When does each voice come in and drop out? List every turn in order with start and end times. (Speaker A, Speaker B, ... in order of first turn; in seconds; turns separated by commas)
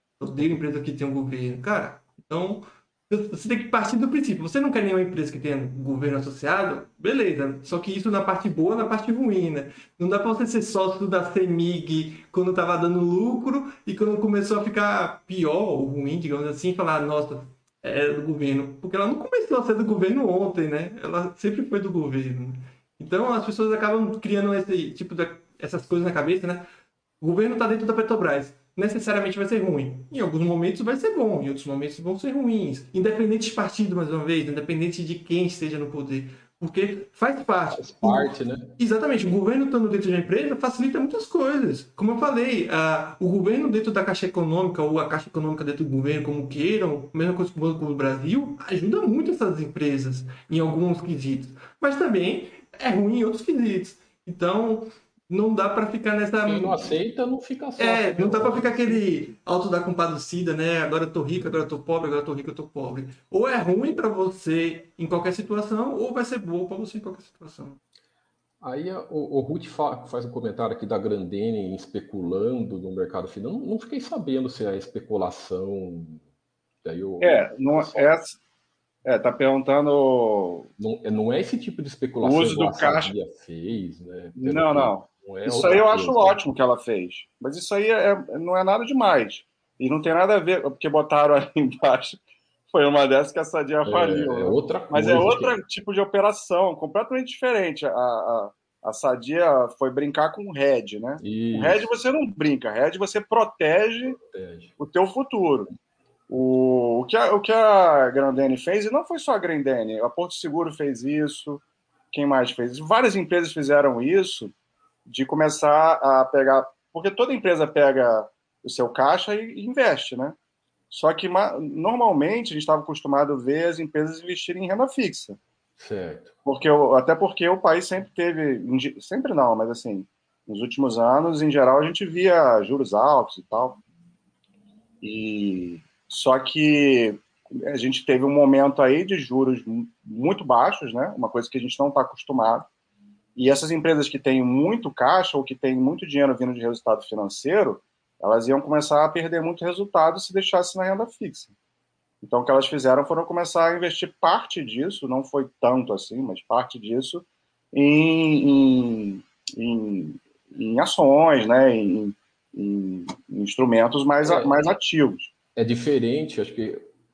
Speaker A: 0.2-26.7, Speaker A: 27.2-56.9, Speaker B: 37.7-38.8, Speaker B: 56.4-59.0, Speaker A: 57.8-67.8, Speaker B: 68.6-76.2, Speaker B: 76.8-78.1, Speaker C: 77.2-78.4, Speaker C: 79.0-80.7, Speaker B: 80.8-86.4, Speaker C: 82.2-83.1, Speaker C: 84.3-92.2, Speaker C: 92.7-104.2, Speaker B: 93.8-95.6, Speaker B: 101.2-101.9, Speaker B: 104.3-104.7, Speaker C: 104.8-105.7, Speaker C: 106.3-114.5, Speaker C: 115.0-120.3, Speaker C: 120.9-125.4, Speaker B: 125.8-126.3, Speaker C: 126.4-133.8, Speaker C: 135.0-142.7, Speaker C: 143.3-151.5, Speaker C: 152.2-165.3, Speaker B: 164.2-164.7, Speaker B: 165.6-166.8